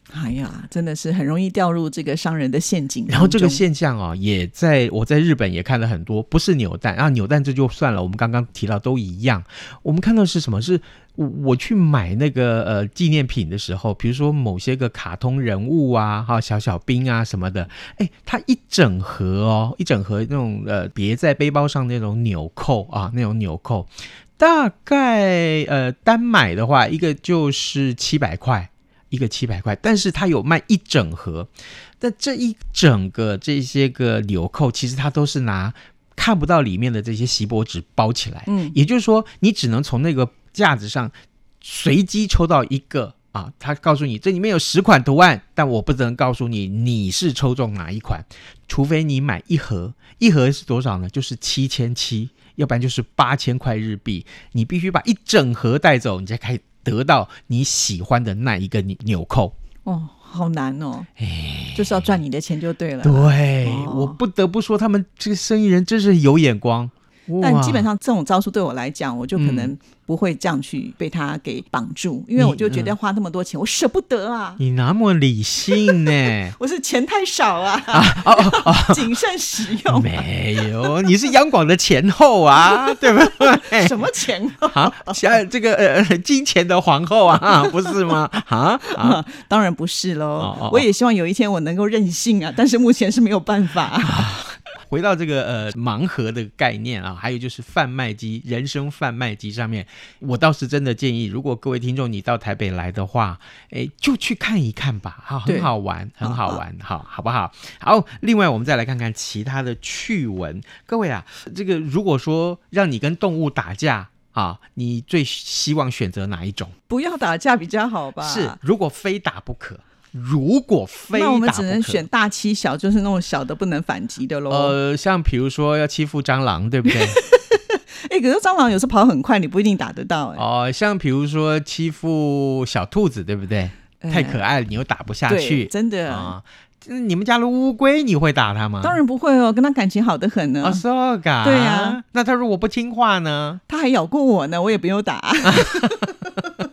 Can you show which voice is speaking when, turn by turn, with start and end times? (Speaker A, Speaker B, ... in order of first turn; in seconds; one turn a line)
Speaker A: 0.1-3.6
Speaker B: 3.1-59.5
Speaker A: 38.5-38.7
Speaker A: 59.8-61.1
Speaker B: 61.2-62.2
Speaker A: 61.7-64.2
Speaker B: 63.0-67.9
Speaker A: 67.4-74.6
Speaker B: 69.3-69.7
Speaker B: 72.3-73.0
Speaker B: 74.6-76.5
Speaker A: 75.7-81.0
Speaker B: 77.9-79.2
Speaker B: 79.8-84.0
Speaker A: 82.6-85.2
Speaker B: 84.6-89.2
Speaker A: 88.8-94.3
Speaker B: 90.4-90.8
Speaker B: 94.0-116.7
Speaker A: 105.5-106.6
Speaker A: 116.9-118.6
Speaker B: 118.2-122.0
Speaker A: 121.1-124.7
Speaker B: 124.5-127.2
Speaker A: 126.9-130.4
Speaker B: 130.3-139.0
Speaker A: 134.0-134.4
Speaker A: 135.3-136.3
Speaker A: 138.8-140.8
Speaker B: 140.6-143.6
Speaker A: 141.4-142.0
Speaker A: 143.7-146.5
Speaker B: 145.4-146.0